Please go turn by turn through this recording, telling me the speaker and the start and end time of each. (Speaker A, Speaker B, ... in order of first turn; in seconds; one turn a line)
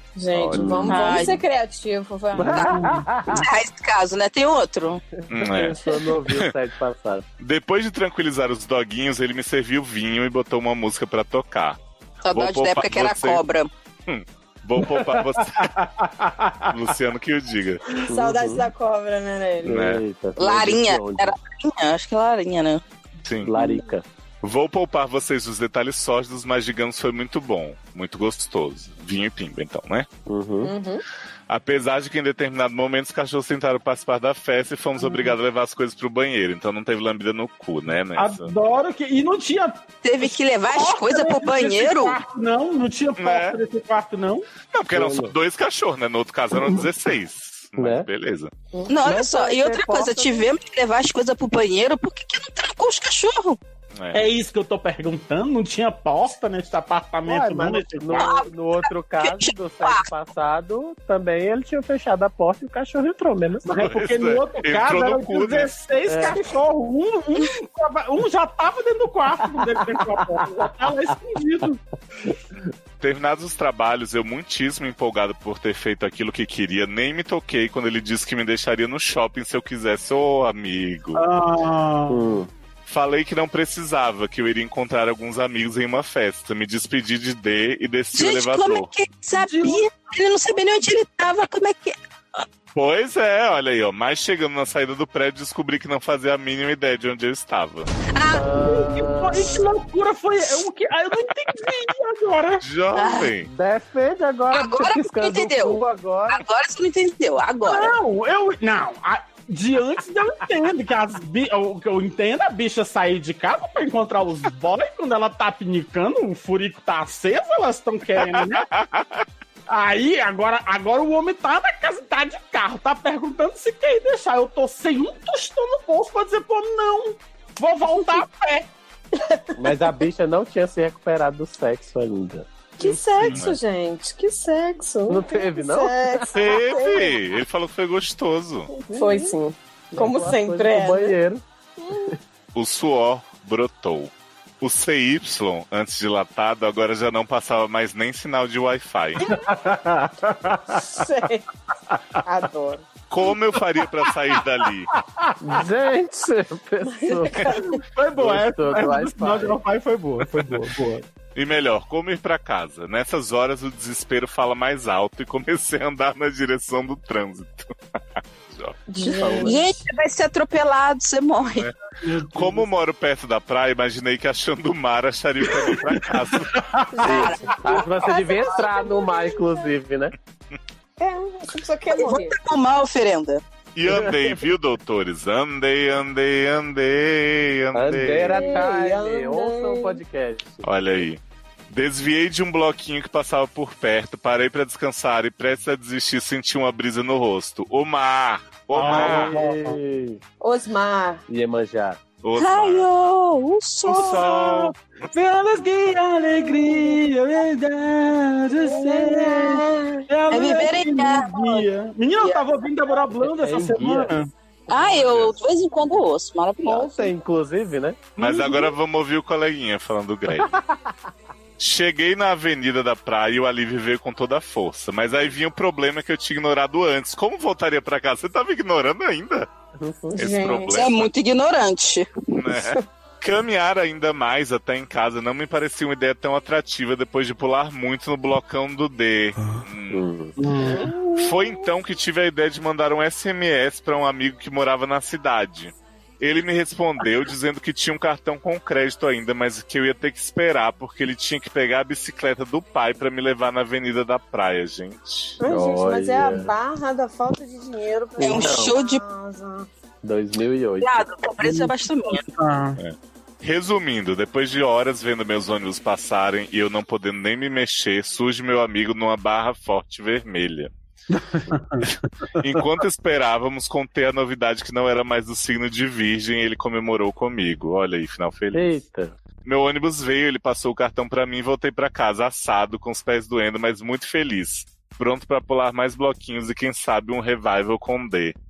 Speaker A: 0.1-2.7
Speaker B: 0.3-0.9
Speaker C: 0.5-1.1
Speaker D: 0.9-1.4
Speaker C: 2.3-3.5
Speaker E: 2.6-3.0
Speaker D: 3.3-5.0
Speaker C: 5.2-7.2
Speaker B: 5.3-5.8
Speaker B: 7.4-11.8
Speaker D: 12.2-13.7
Speaker B: 12.3-13.4
Speaker B: 14.1-15.7
Speaker E: 14.8-16.9
Speaker B: 16.7-17.8
Speaker A: 18.1-19.8
Speaker C: 18.1-18.7
Speaker C: 19.6-21.3
Speaker B: 19.6-20.0
Speaker D: 20.4-22.8
Speaker B: 23.2-23.5
Speaker C: 23.4-24.0
Speaker B: 24.4-30.1
Speaker C: 30.3-30.7
Speaker A: 30.6-31.0
Speaker B: 31.5-38.5
Speaker E: 38.1-44.5
Speaker D: 40.0-42.2
Speaker B: 43.2-43.6
Speaker B: 44.7-48.5
Speaker C: 44.9-45.3
Speaker C: 47.8-48.1
Speaker D: 48.9-53.6
Speaker C: 49.0-50.5
Speaker B: 53.9-54.3
Speaker E: 54.1-58.3
Speaker C: 57.2-63.7
Speaker D: 58.1-60.0
Speaker E: 63.6-71.8
Speaker B: 63.8-65.7
Speaker C: 66.1-66.4
Speaker C: 69.6-70.9
Speaker B: 73.0-81.2
Speaker E: 81.2-82.4
Speaker C: 82.1-82.5
Speaker B: 82.8-88.9
Speaker D: 88.1-92.0
Speaker E: 89.3-89.8
Speaker B: 92.7-97.9
Speaker D: 98.1-98.5
Speaker C: 98.3-99.7
Speaker E: 98.6-102.6
Speaker B: 102.6-103.5
Speaker D: 102.9-103.3
Speaker C: 103.4-106.4
Speaker D: 104.5-107.9
Speaker E: 107.6-118.7
Speaker B: 118.2-119.2
Speaker E: 119.7-128.7
Speaker A: 129.2-129.5
Speaker C: 129.6-132.5
Speaker A: 132.8-137.2
Speaker E: 132.8-133.3
Speaker B: 133.2-133.6
Speaker C: 135.1-136.4
Speaker B: 136.3-138.7
Speaker C: 138.9-139.3
Speaker A: 138.9-141.2
Speaker C: 139.9-141.4
Speaker A: 141.8-142.1
Speaker B: 142.5-149.3
Speaker E: 149.2-150.8
Speaker A: 150.7-151.4
Speaker A: 152.2-152.8
Speaker B: 153.1-154.9
Speaker E: 155.0-155.3
Speaker C: 155.4-157.6
Speaker A: 156.8-157.8
Speaker E: 157.8-161.1
Speaker C: 158.2-159.6
Speaker B: 161.3-167.7
Speaker B: 168.5-168.8
Speaker A: 168.9-169.7
Speaker C: 169.1-169.6
Speaker D: 169.4-171.7
Speaker E: 172.0-172.8
Speaker B: 172.3-177.2
Speaker E: 175.5-177.2
Speaker A: 176.9-179.7
Speaker D: 177.1-177.9
Speaker C: 177.1-180.1
Speaker A: 181.0-182.3
Speaker D: 181.9-183.4
Speaker B: 183.7-188.6
Speaker C: 183.9-184.3
Speaker C: 187.7-191.0
Speaker A: 188.3-190.0
Speaker B: 190.6-199.4
Speaker E: 198.7-199.8
Speaker C: 198.8-200.2
Speaker A: 200.4-201.2
Speaker C: 201.3-202.0
Speaker B: 202.2-202.9
Speaker D: 202.4-204.3
Speaker E: 203.8-214.3
Speaker B: 203.9-204.7
Speaker A: 208.6-210.0
Speaker D: 210.3-211.7
Speaker C: 213.2-214.1
Speaker D: 214.7-217.1
Speaker C: 216.6-218.0
Speaker B: 218.2-220.5
Speaker E: 218.2-218.7
Speaker B: 221.6-229.5
Speaker C: 229.8-230.2
Speaker A: 230.2-230.7
Speaker B: 230.2-231.1
Speaker D: 230.7-232.1
Speaker B: 232.3-240.1
Speaker C: 239.9-240.3
Speaker E: 240.4-241.0
Speaker A: 240.7-241.2
Speaker B: 241.1-255.4
Speaker A: 255.4-259.7
Speaker C: 255.4-256.5
Speaker C: 258.2-258.7
Speaker D: 258.2-259.0
Speaker C: 260.0-261.1
Speaker D: 260.8-262.2
Speaker E: 261.4-262.8
Speaker B: 262.8-270.7
Speaker E: 271.1-272.6
Speaker B: 272.4-278.7
Speaker C: 278.5-279.1
Speaker B: 279.4-288.3